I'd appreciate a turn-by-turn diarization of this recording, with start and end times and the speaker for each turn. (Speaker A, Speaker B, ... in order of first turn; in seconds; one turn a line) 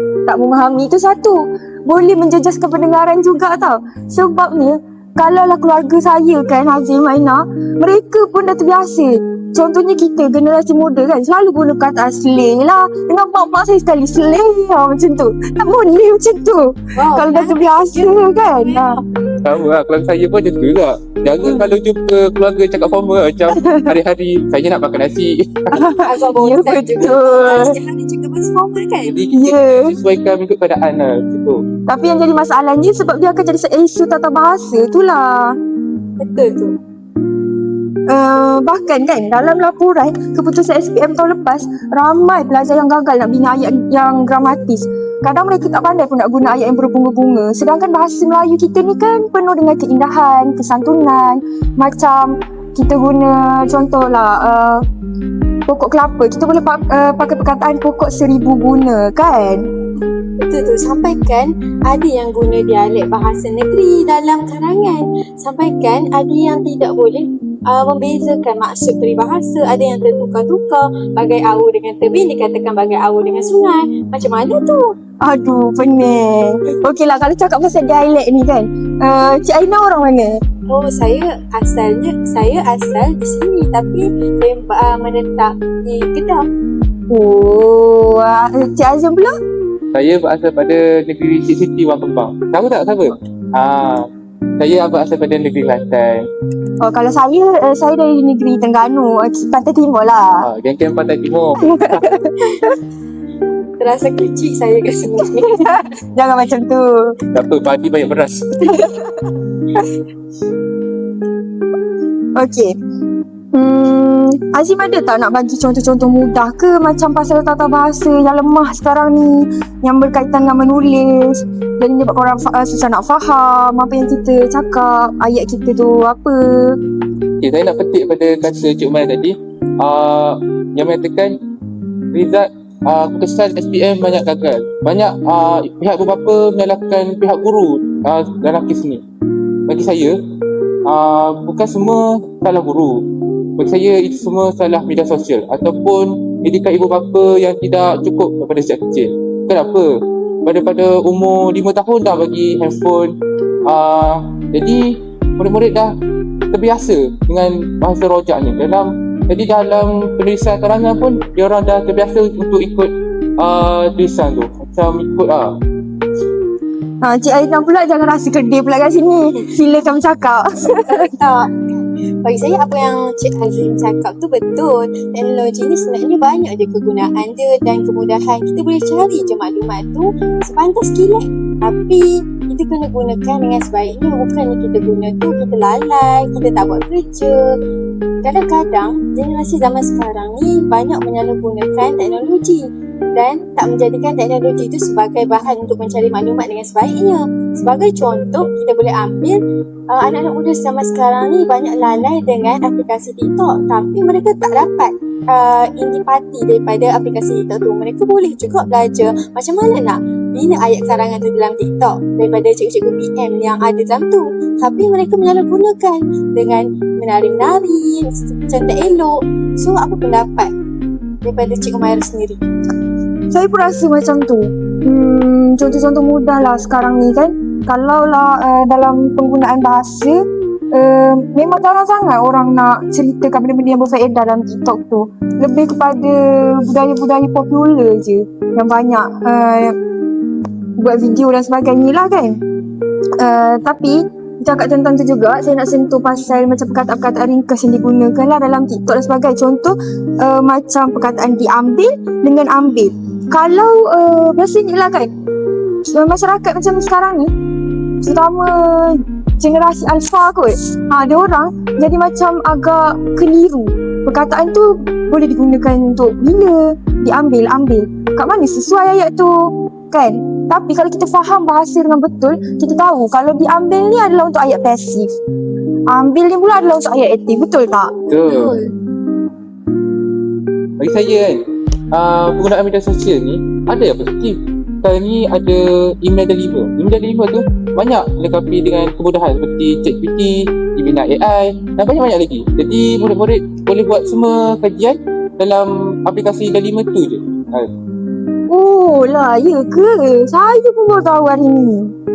Speaker A: 0.3-19.0
Speaker B: 17.0-18.9
Speaker C: 19.4-25.9
Speaker A: 23.5-24.0
Speaker A: 25.7-27.7
Speaker B: 26.0-29.1
Speaker C: 29.1-31.6
Speaker A: 29.3-30.0
Speaker A: 31.9-35.6
Speaker B: 36.2-36.8
Speaker A: 38.1-54.8
Speaker A: 55.7-59.7
Speaker B: 60.4-74.9
Speaker A: 75.2-80.4
Speaker B: 80.7-86.5
Speaker A: 87.1-89.3
Speaker C: 89.9-96.3
Speaker A: 96.8-100.5
Speaker C: 100.4-101.6
Speaker A: 101.6-102.8
Speaker B: 103.8-105.8
Speaker A: 105.5-107.2
Speaker C: 107.3-108.8
Speaker A: 108.7-109.3
Speaker A: 112.3-112.7
Speaker A: 113.5-126.8
Speaker C: 127.4-131.4
Speaker C: 132.1-139.0
Speaker C: 139.7-140.2
Speaker C: 140.8-143.1
Speaker C: 143.6-149.9
Speaker C: 150.4-155.9
Speaker C: 156.5-165.6
Speaker A: 167.0-171.1
Speaker B: 170.9-187.4
Speaker B: 188.2-220.5
Speaker B: 221.2-222.4
Speaker A: 223.3-230.2
Speaker A: 230.7-239.8
Speaker A: 240.8-242.4
Speaker A: 243.2-255.1
Speaker A: 255.9-257.3
Speaker A: 258.0-275.1
Speaker A: 275.9-277.9
Speaker C: 278.1-278.5
Speaker B: 278.2-278.7
Speaker C: 280.8-281.4
Speaker C: 281.9-297.7
Speaker A: 298.5-301.9